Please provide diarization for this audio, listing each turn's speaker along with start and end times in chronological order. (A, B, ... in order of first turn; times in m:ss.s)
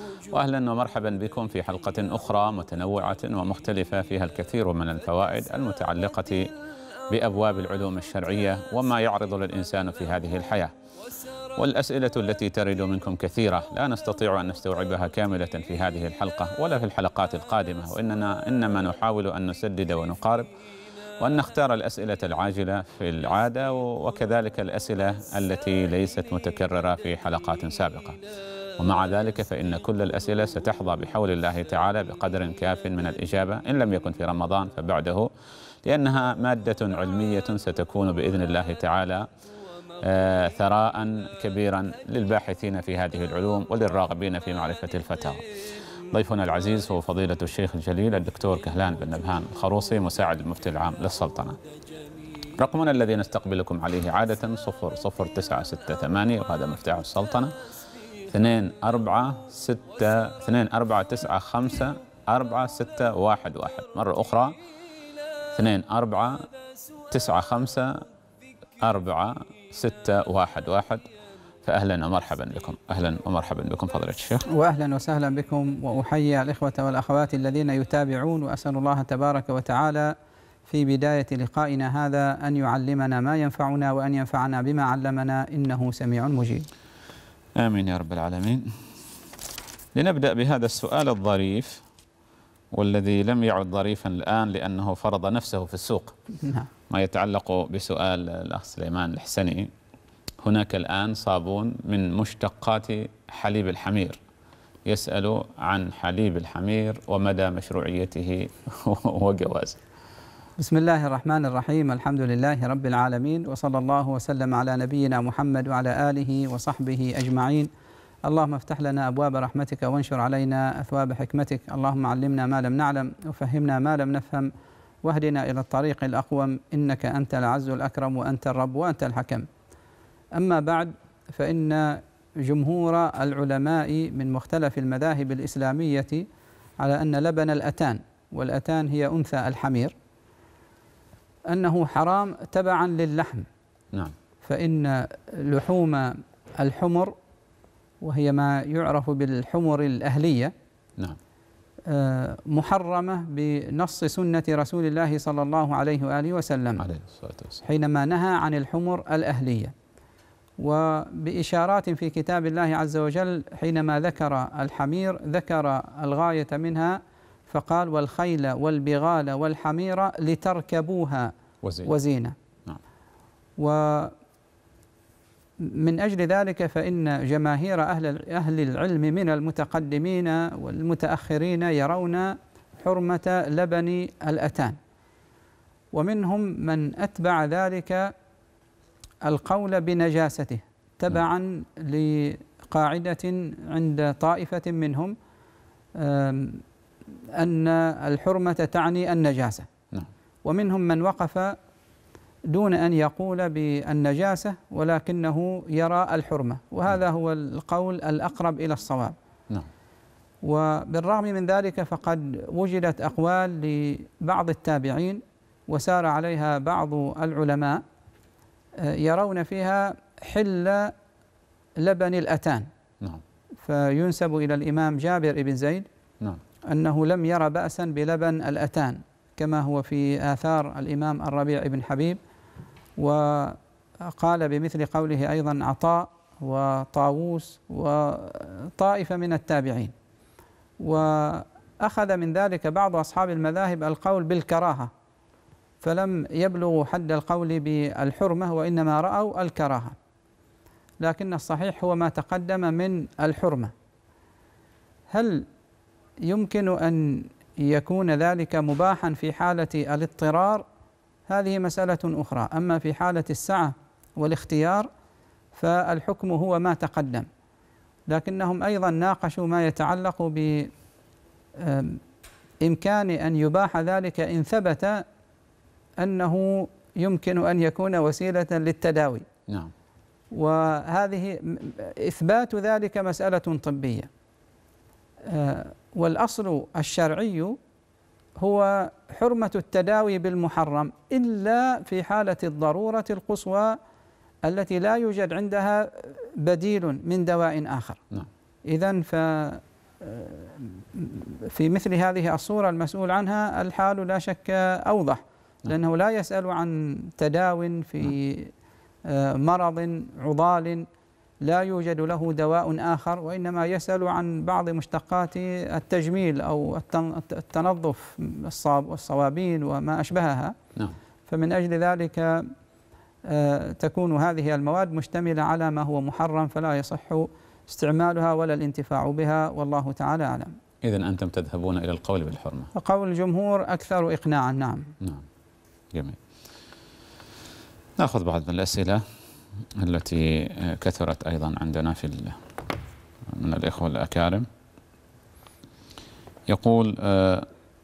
0:00.3-0:06.5 A
0:07.1-0:10.7 A
0:11.6-0:20.5 A
0:21.2-0:28.2 A
0:28.8-0:35.3 A
0:35.8-0:39.3 A
0:40.0-0:45.4 A
0:46.1-0:51.6 A
0:52.6-0:57.6 A
0:58.2-1:04.5 A
1:05.5-1:06.5 A
1:07.1-1:08.0 A
1:08.8-1:11.1 A
1:11.6-1:14.5 A
1:14.5-1:20.2 B
1:20.7-1:26.7 B
1:27.6-1:28.7 A
1:30.0-1:31.8 A
1:32.7-1:36.2 A
1:36.4-1:36.7 B
1:36.9-1:39.7 A
1:40.4-1:44.2 A
1:44.9-1:49.8 A
1:50.6-1:57.7 B
1:58.2-2:04.5 B
2:05.0-2:09.5 B
2:10.3-2:16.3 B
2:16.8-2:19.9 B
2:21.5-2:23.5 B
2:24.4-2:27.2 B
2:28.0-2:30.5 B
2:31.9-2:36.8 B
2:36.8-2:37.6 A
2:37.6-2:39.7 B
2:40.6-2:51.3 B
2:51.6-2:51.9 A
2:51.8-2:52.4 B
2:53.6-2:54.2 B
2:55.6-3:04.8 B
3:05.9-3:08.1 B
3:09.2-3:15.2 B
3:16.0-3:16.6 B
3:17.4-3:19.7 B
3:20.4-3:21.6 B
3:22.5-3:29.1 B
3:30.4-3:37.8 B
3:38.8-3:40.9 B
3:41.8-3:42.7 B
3:43.6-3:45.9 B
3:46.7-3:52.2 B
3:53.0-3:59.9 B
4:00.8-4:04.9 B
4:05.8-4:10.0 B
4:11.0-4:13.7 B
4:15.1-4:15.5 B
4:16.2-4:20.6 B
4:21.3-4:24.9 B
4:25.6-4:27.3 B
4:28.1-4:30.7 B
4:31.6-4:32.0 B
4:32.6-4:35.0 B
4:36.0-4:39.2 B
4:40.3-4:44.1 B
4:45.2-4:47.6 B
4:48.4-4:53.8 B
4:54.4-4:58.0 B
4:58.7-5:08.5 B
5:09.1-5:10.9 B
5:11.4-5:20.6 B
5:21.3-5:22.5 B
5:23.3-5:30.6 B
5:30.8-5:32.7 A
5:32.7-5:34.9 B
5:35.9-5:36.2 A
5:38.0-5:39.0 A
5:39.8-5:42.4 A
5:43.3-5:44.5 A
5:46.5-5:47.5 A